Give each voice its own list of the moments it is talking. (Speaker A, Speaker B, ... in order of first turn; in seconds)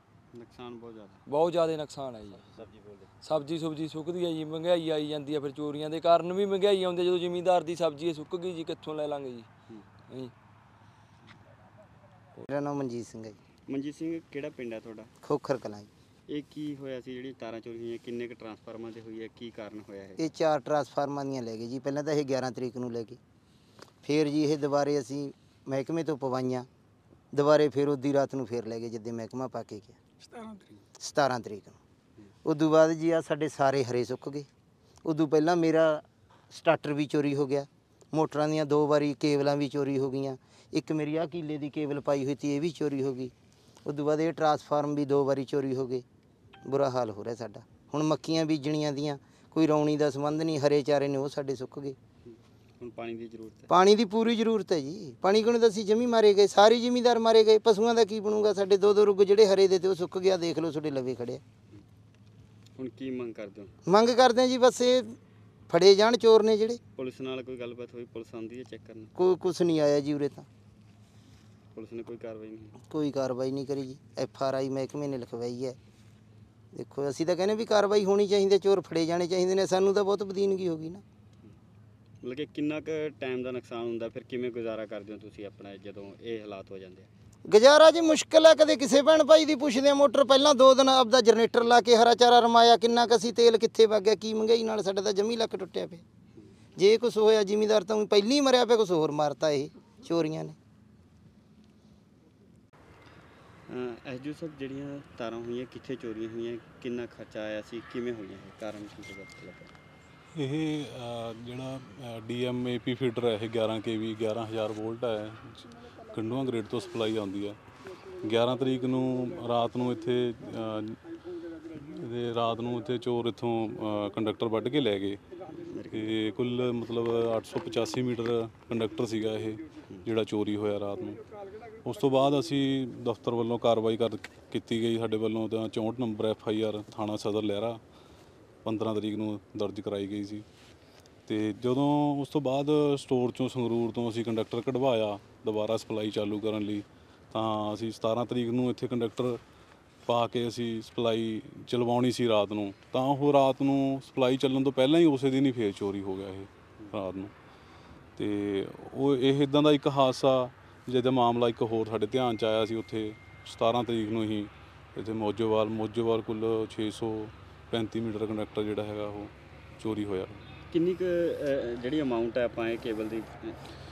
Speaker A: 0.3-1.2, 13.7-15.1, 16.3-20.2, 52.2-53.7, 62.8-63.7, 67.0-69.1, 71.8-72.8, 82.2-87.1, 103.7-109.7, 125.6-126.1, 170.7-173.6
Speaker B: 1.2-2.6, 3.2-9.5, 10.1-10.3
Speaker C: 12.5-13.4, 15.2-15.9, 20.2-23.2, 24.0-26.7, 27.3-30.0, 31.0-31.8, 32.5-34.5, 35.0-43.3, 43.9-46.0, 46.6-52.0, 53.7-61.4, 63.9-65.1, 65.7-66.8, 69.2-70.5, 72.9-75.8, 76.7-81.0, 87.5-96.0, 96.8-100.6
Speaker D: 110.3-117.6, 118.2-121.0, 121.7-125.2, 125.9-131.2, 131.8-137.8, 138.6-140.4, 141.3-149.4, 150.1-157.3, 158.2-170.4